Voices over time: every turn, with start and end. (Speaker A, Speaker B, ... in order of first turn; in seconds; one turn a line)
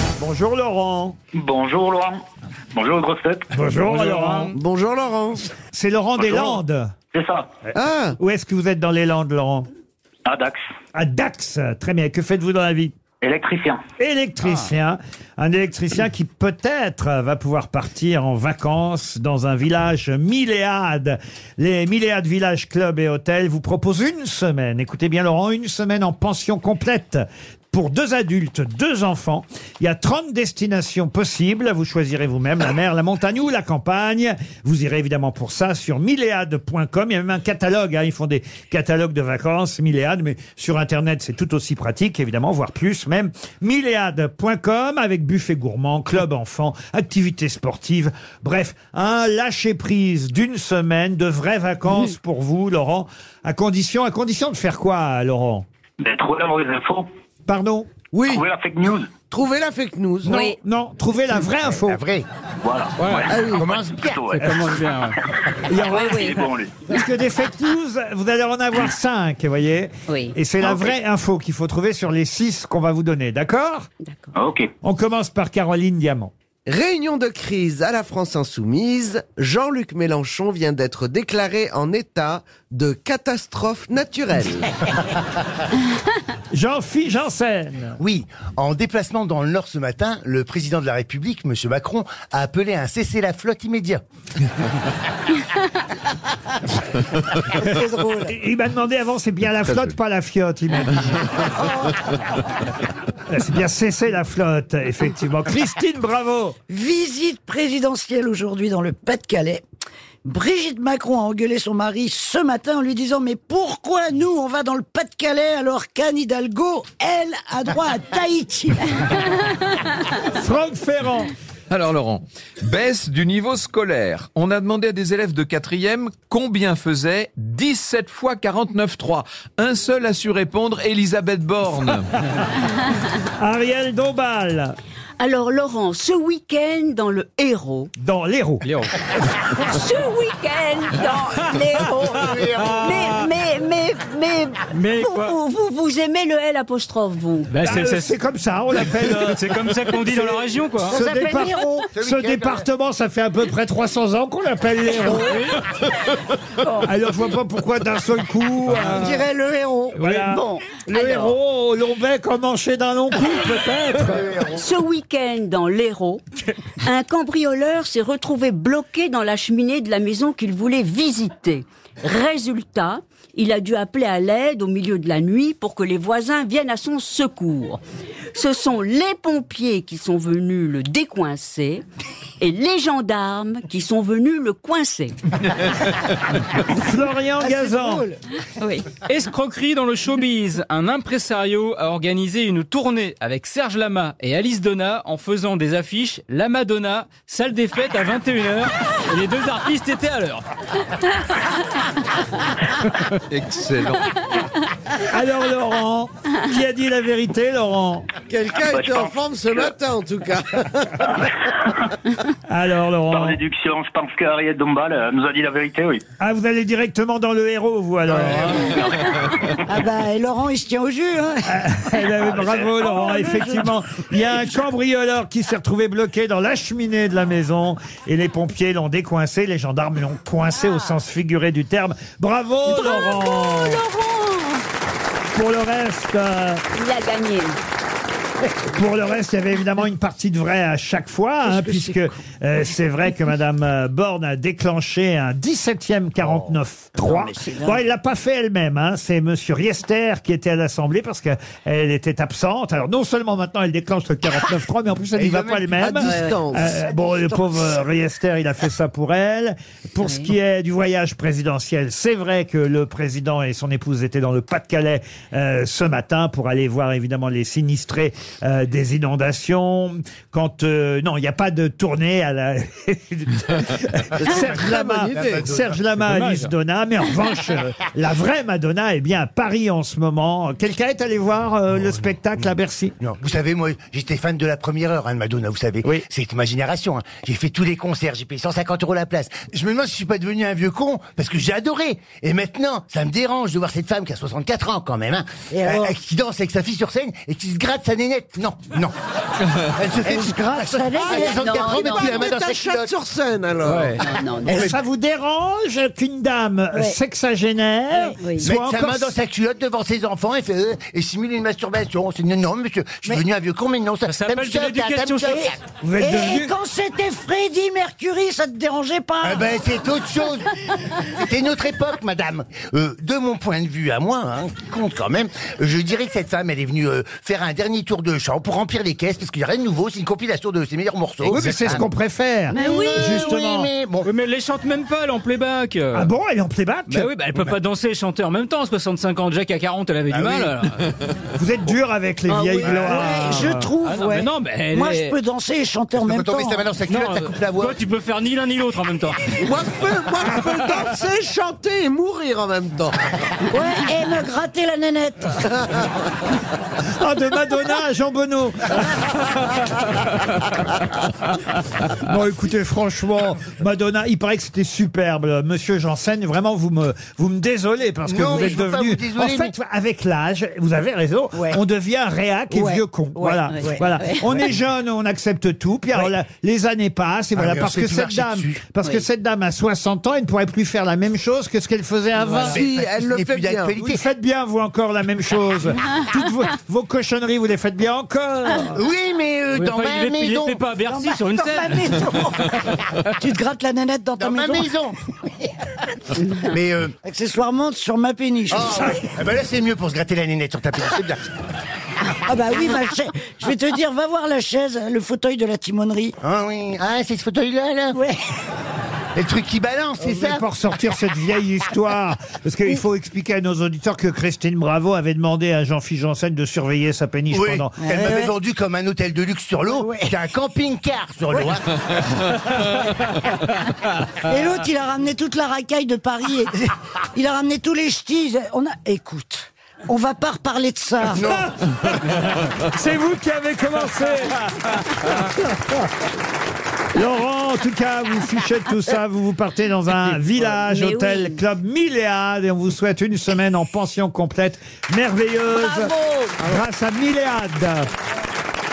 Speaker A: 0.2-1.2
Speaker B: 1.4-2.2
Speaker B: 2.8-3.5
Speaker A: 3.5-4.5
Speaker C: 3.9-4.5
Speaker D: 4.5-5.5
Speaker A: 5.7-6.9
Speaker D: 7.7-8.2
Speaker A: 8.2-9.7
Speaker B: 10.3-10.6
Speaker A: 10.9-13.0
Speaker B: 13.2-13.8
Speaker A: 14.0-55.7
Speaker B: 56.0-57.1
Speaker A: 57.5-57.9
Speaker D: 58.1-58.5
Speaker B: 58.4-59.1
Speaker D: 59.2-60.3
Speaker A: 60.2-62.0
Speaker E: 60.3-60.6
Speaker F: 61.8-62.3
Speaker B: 62.6-64.4
Speaker C: 63.0-63.3
Speaker D: 63.3-63.7
Speaker F: 63.5-64.3
Speaker C: 64.4-65.2
Speaker A: 64.4-64.7
Speaker A: 65.7-73.9
Speaker B: 65.9-66.7
Speaker E: 65.9-66.4
Speaker E: 70.1-70.3
Speaker E: 74.0-74.3
Speaker B: 74.4-74.7
Speaker A: 74.8-76.3
Speaker D: 76.7-84.7
Speaker A: 86.5-88.0
Speaker F: 88.0-94.0
Speaker G: 97.7-98.3
Speaker A: 98.3-101.3
Speaker G: 101.5-101.9
Speaker A: 103.3-106.6
Speaker G: 106.7-109.6
Speaker G: 110.2-118.9
Speaker A: 120.3-121.3
Speaker H: 121.7-132.1
Speaker A: 133.4-134.8
Speaker E: 135.2-137.9
Speaker A: 138.0-138.7
Speaker C: 138.6-138.9
Speaker E: 139.4-147.6
Speaker F: 141.8-143.2
Speaker C: 142.4-143.1
Speaker C: 144.7-145.3
Speaker C: 147.5-148.1
Speaker A: 147.6-155.5
Speaker C: 148.8-151.0
Speaker G: 150.8-151.8
Speaker F: 151.9-152.7
Speaker C: 155.2-155.6
Speaker A: 156.8-159.2
Speaker G: 158.8-160.0
Speaker A: 159.9-164.3
Speaker E: 160.0-161.3
Speaker F: 164.1-164.6
Speaker E: 164.5-166.2
Speaker E: 166.8-177.8
Speaker E: 178.3-181.8
Speaker E: 182.4-185.2
Speaker A: 186.7-188.1
Speaker G: 187.4-188.2
Speaker E: 188.6-188.9
Speaker C: 189.1-200.5
Speaker H: 203.3-204.1
Speaker A: 205.1-208.1
Speaker D: 208.3-211.1
Speaker B: 208.7-209.7
Speaker A: 212.5-213.4
Speaker B: 213.2-216.0
Speaker A: 216.2-218.8
Speaker G: 219.7-221.6
Speaker A: 221.5-233.8
Speaker G: 222.8-223.6
Speaker E: 232.7-234.6
Speaker A: 235.3-236.6
Speaker E: 236.7-237.6
Speaker A: 238.7-283.0
Speaker D: 241.5-242.0
Speaker F: 255.2-256.1
Speaker D: 255.4-256.9
Speaker G: 256.9-257.8
Speaker E: 260.0-260.3
Speaker D: 274.2-275.5
Speaker F: 274.3-275.8
Speaker C: 276.0-276.5
Speaker F: 283.0-298.9
Speaker G: 295.5-296.0
Speaker F: 299.6-302.9
Speaker G: 300.0-301.9
Speaker D: 300.9-304.0
Speaker E: 301.1-302.3
Speaker C: 303.7-303.9
Speaker E: 303.9-304.7
Speaker A: 304.4-309.2
Speaker G: 308.1-308.4
Speaker E: 308.2-308.5
Speaker F: 308.4-315.6
Speaker C: 314.1-315.4
Speaker G: 315.3-319.4
Speaker A: 315.8-316.5
Speaker F: 319.2-331.9
Speaker A: 331.2-333.7
Speaker F: 332.5-334.1
Speaker E: 332.6-332.9
Speaker C: 332.6-333.1
Speaker C: 334.0-336.1
Speaker A: 335.9-337.1
Speaker C: 336.9-340.8
Speaker F: 340.1-340.6
Speaker A: 341.4-343.7
Speaker G: 342.3-346.7
Speaker F: 342.6-343.0
Speaker C: 343.8-345.2
Speaker F: 345.9-347.8
Speaker C: 346.8-349.3
Speaker D: 349.4-353.0
Speaker G: 353.5-355.5
Speaker A: 356.8-359.6
Speaker A: 361.9-382.6
Speaker F: 368.1-369.5
Speaker G: 372.5-373.9
Speaker E: 373.5-374.2
Speaker F: 377.4-378.6
Speaker D: 382.4-383.8
Speaker F: 382.5-384.0
Speaker A: 383.8-388.8
Speaker F: 388.6-390.6
Speaker C: 389.5-392.1
Speaker G: 390.9-394.7
Speaker F: 394.2-395.0
Speaker F: 396.3-396.9
Speaker G: 397.0-398.9
Speaker F: 398.5-401.2
Speaker G: 402.3-406.1
Speaker F: 406.2-408.0
Speaker G: 407.9-408.2
Speaker F: 409.2-410.5
Speaker A: 410.0-417.8
Speaker F: 417.3-422.0
Speaker G: 417.8-418.3
Speaker G: 419.7-420.1
Speaker G: 424.3-426.5
Speaker G: 427.1-431.2
Speaker F: 431.2-431.5
Speaker A: 431.2-435.9
Speaker A: 436.9-447.9
Speaker E: 440.7-441.4
Speaker E: 445.6-446.5